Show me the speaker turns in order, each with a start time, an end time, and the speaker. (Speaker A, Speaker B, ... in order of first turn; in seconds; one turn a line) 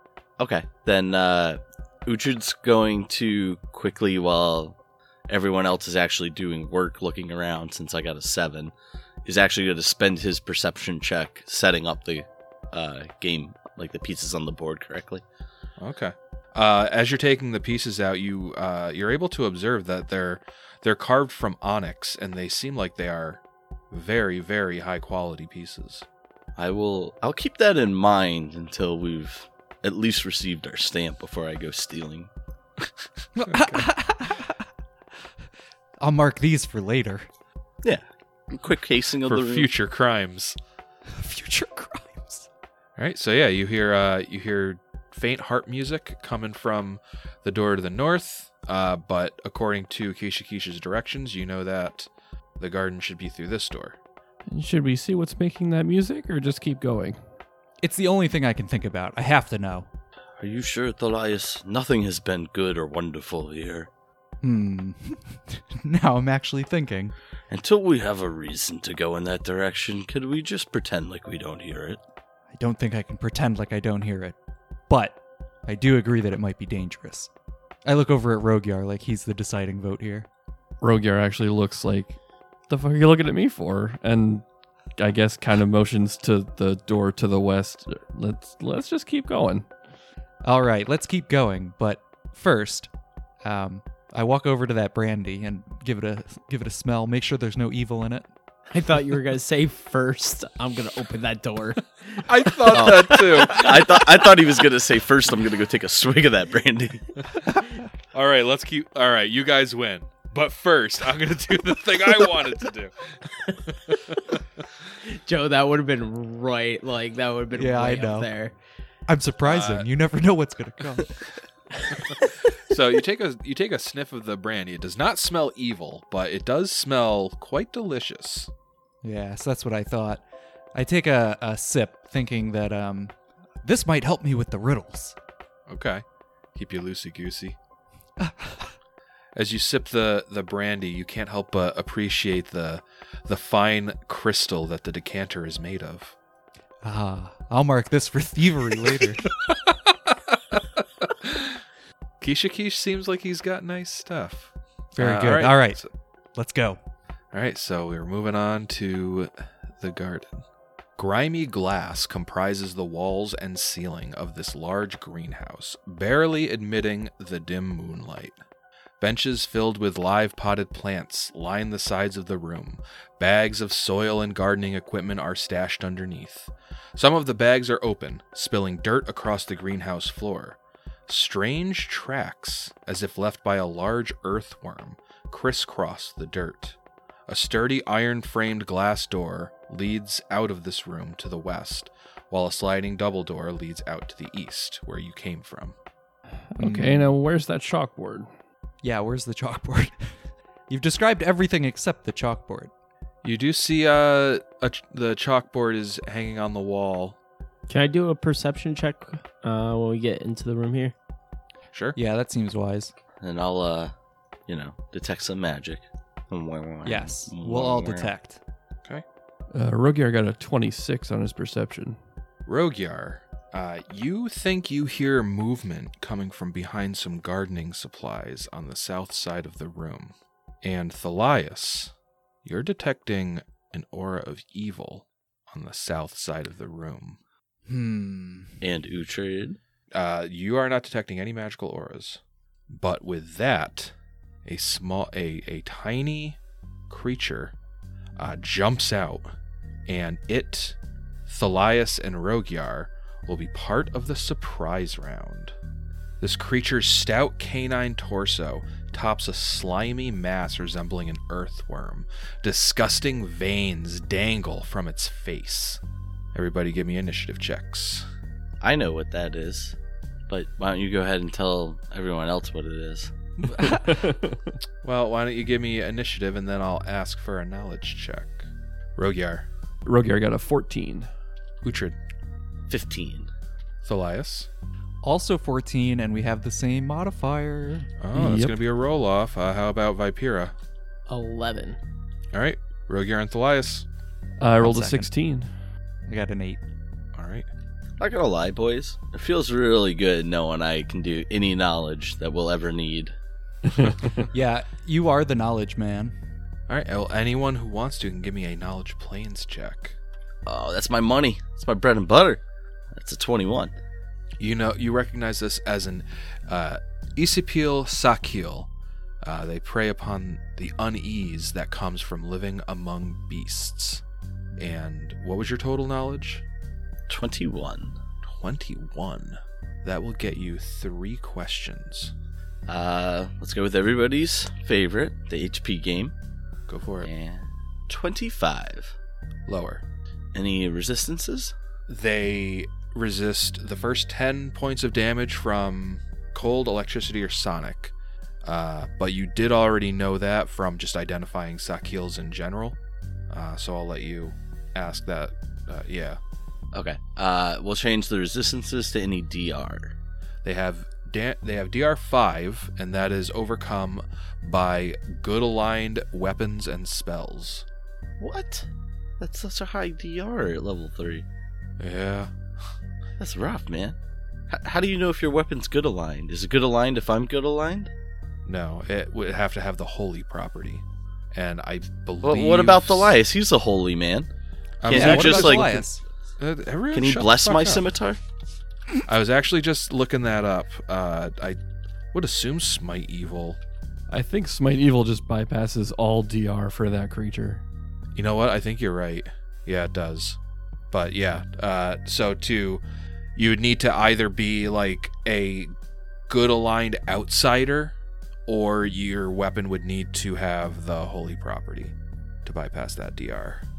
Speaker A: 0.4-4.8
Speaker A: 5.3-8.7
Speaker A: 9.2-15.2
Speaker B: 15.8-26.1
Speaker A: 26.6-32.3
Speaker C: 33.4-34.6
Speaker B: 33.5-33.9
Speaker C: 36.0-37.3
Speaker A: 37.8-39.7
Speaker B: 39.2-40.6
Speaker C: 41.1-42.5
Speaker B: 43.0-54.0
Speaker D: 54.5-57.2
Speaker C: 57.8-59.9
Speaker A: 60.4-63.9
Speaker C: 64.4-67.1
Speaker A: 67.5-72.0
Speaker C: 72.5-74.4
Speaker C: 74.9-77.3
Speaker C: 77.8-80.3
Speaker D: 80.8-84.4
Speaker D: 85.0-89.7
Speaker C: 90.4-92.9
Speaker C: 93.4-98.3
Speaker E: 98.7-103.9
Speaker B: 102.3-103.8
Speaker A: 102.7-107.2
Speaker B: 108.1-114.4
Speaker E: 115.0-118.6
Speaker C: 117.5-118.3
Speaker C: 119.1-121.3
Speaker B: 119.5-119.9
Speaker B: 122.1-128.5
Speaker C: 129.0-135.2
Speaker B: 135.7-136.0
Speaker B: 136.6-137.6
Speaker C: 138.2-138.7
Speaker B: 139.3-146.2
Speaker C: 146.8-149.3
Speaker B: 149.4-151.6
Speaker B: 152.2-155.9
Speaker C: 154.9-155.8
Speaker C: 156.3-156.8
Speaker B: 157.3-160.4
Speaker B: 161.0-168.4
Speaker B: 169.0-186.8
Speaker B: 187.3-195.8
Speaker C: 196.6-197.1
Speaker D: 196.6-198.3
Speaker C: 198.8-202.7
Speaker B: 203.2-207.2
Speaker E: 207.7-210.9
Speaker B: 211.7-212.0
Speaker C: 211.9-212.9
Speaker A: 213.2-213.9
Speaker A: 214.5-218.1
Speaker C: 216.8-218.4
Speaker D: 219.5-222.0
Speaker B: 222.5-237.2
Speaker C: 237.7-238.6
Speaker A: 238.6-239.6
Speaker B: 239.9-246.4
Speaker B: 246.9-247.6
Speaker B: 248.2-249.3
Speaker B: 249.9-255.6
Speaker B: 256.2-265.8
Speaker B: 266.3-268.1
Speaker A: 268.6-269.8
Speaker A: 270.3-273.1
Speaker C: 273.6-273.8
Speaker D: 273.7-274.4
Speaker B: 274.8-279.5
Speaker D: 279.9-281.1
Speaker B: 281.6-282.0
Speaker A: 282.7-283.3
Speaker B: 283.8-284.5
Speaker C: 285.0-287.9
Speaker B: 288.0-290.5
Speaker D: 288.1-288.6
Speaker E: 291.1-291.8
Speaker B: 292.3-293.9
Speaker D: 294.4-295.5
Speaker C: 294.6-295.1
Speaker C: 296.1-296.6
Speaker B: 297.1-297.5
Speaker A: 298.0-303.2
Speaker C: 304.3-306.2
Speaker B: 306.7-310.0
Speaker A: 310.4-313.7
Speaker B: 314.4-318.7
Speaker B: 319.2-324.0
Speaker B: 324.6-326.4
Speaker A: 327.1-328.0
Speaker B: 328.3-332.1
Speaker A: 332.7-336.1
Speaker B: 336.7-337.1
Speaker A: 337.0-339.0
Speaker B: 339.5-339.8
Speaker A: 340.3-341.5
Speaker B: 341.9-352.8
Speaker B: 353.3-356.2
Speaker A: 356.7-359.9
Speaker B: 360.4-367.7
Speaker A: 368.2-371.2
Speaker B: 371.8-372.3
Speaker A: 373.2-374.0
Speaker A: 374.5-377.9
Speaker B: 378.5-383.2
Speaker A: 382.2-384.3
Speaker B: 384.8-385.9
Speaker A: 384.9-385.9
Speaker C: 384.9-386.0
Speaker B: 386.4-387.9
Speaker A: 386.9-388.2
Speaker B: 389.1-391.6
Speaker B: 392.1-393.6
Speaker D: 394.1-397.6
Speaker B: 398.1-400.4
Speaker B: 400.9-402.8
Speaker B: 403.4-405.7
Speaker B: 406.3-408.0
Speaker B: 408.5-413.6